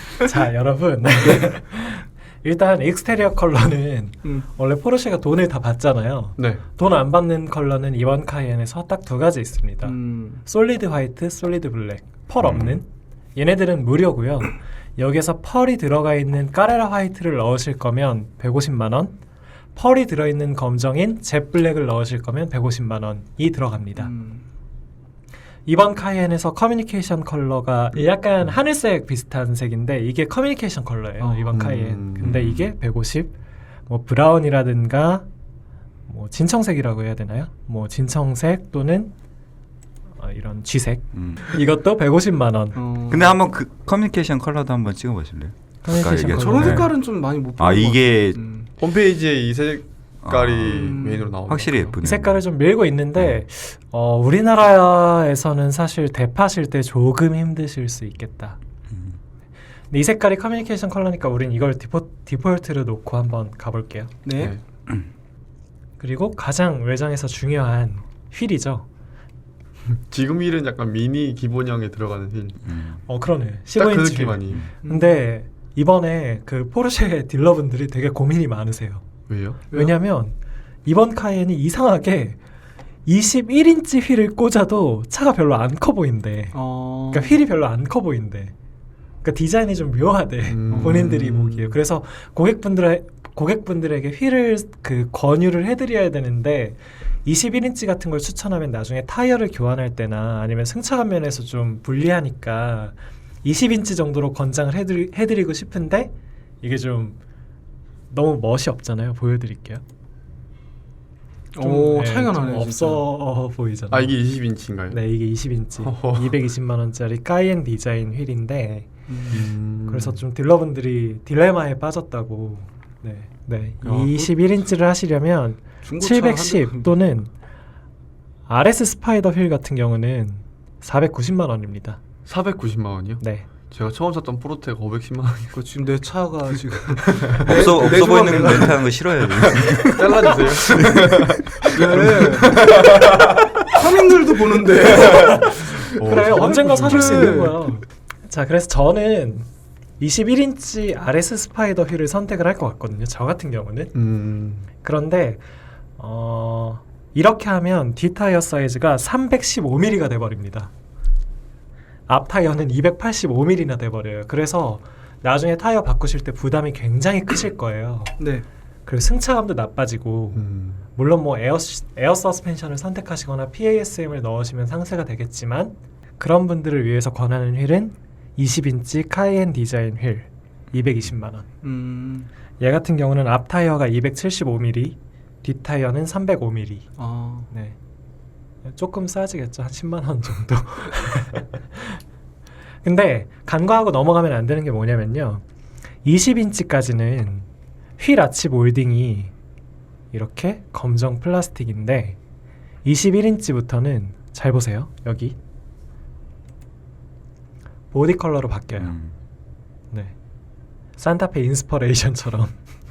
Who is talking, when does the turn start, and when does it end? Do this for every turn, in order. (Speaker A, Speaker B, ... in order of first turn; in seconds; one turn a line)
Speaker A: 0.2-19.2
Speaker B: 6.4-6.6
Speaker C: 9.8-10.4
Speaker D: 12.4-12.8
Speaker A: 19.8-24.1
Speaker C: 24.0-24.4
Speaker A: 25.7-33.3
Speaker C: 31.2-31.6
Speaker B: 31.5-32.6
Speaker A: 33.9-35.3
Speaker A: 36.1-39.1
Speaker A: 40.2-42.8
Speaker D: 41.1-41.4
Speaker C: 42.8-43.3
Speaker D: 43.1-48.4
Speaker A: 45.8-46.9
Speaker C: 46.3-48.7
Speaker B: 48.8-52.0
Speaker D: 50.2-52.5
Speaker C: 50.7-51.3
Speaker A: 52.0-58.6
Speaker D: 53.2-53.4
Speaker A: 59.9-64.1
Speaker C: 64.2-64.6
Speaker A: 66.0-68.9
Speaker B: 70.1-72.8
Speaker D: 72.7-73.0
Speaker A: 73.1-79.0
Speaker B: 73.8-74.7
Speaker C: 74.8-75.2
Speaker B: 79.3-79.6
Speaker A: 79.7-82.4
Speaker A: 83.1-88.5
Speaker C: 86.5-87.4
Speaker A: 89.2-107.2
Speaker B: 90.5-91.8
Speaker C: 90.8-91.1
Speaker A: 108.1-109.8
Speaker C: 111.5-113.0
Speaker A: 111.6-114.2
Speaker B: 113.9-115.0
Speaker A: 114.9-118.9
Speaker B: 115.8-116.4
Speaker C: 119.1-119.5
Speaker B: 119.3-120.2
Speaker A: 119.8-127.3
Speaker C: 123.8-124.3
Speaker C: 125.8-126.9
Speaker A: 128.5-132.0
Speaker B: 132.3-135.6
Speaker A: 133.2-133.5
Speaker C: 135.5-138.9
Speaker D: 137.4-140.2
Speaker C: 139.5-140.8
Speaker B: 139.8-143.3
Speaker C: 141.6-142.8
Speaker C: 143.7-147.8
Speaker A: 145.1-153.9
Speaker B: 146.0-147.5
Speaker B: 153.9-154.7
Speaker A: 154.8-155.4
Speaker A: 156.0-160.7
Speaker A: 162.1-168.3
Speaker C: 168.2-168.4
Speaker A: 168.9-181.5
Speaker B: 170.3-170.8
Speaker C: 181.6-182.3
Speaker A: 182.6-186.9
Speaker C: 187.0-187.5
Speaker A: 187.5-187.8
Speaker A: 188.7-192.0
Speaker A: 192.8-195.4
Speaker A: 196.0-197.5
Speaker A: 198.0-199.3
Speaker A: 200.1-202.2
Speaker A: 202.8-205.4
Speaker A: 207.9-208.9
Speaker D: 208.8-209.1
Speaker A: 211.0-212.6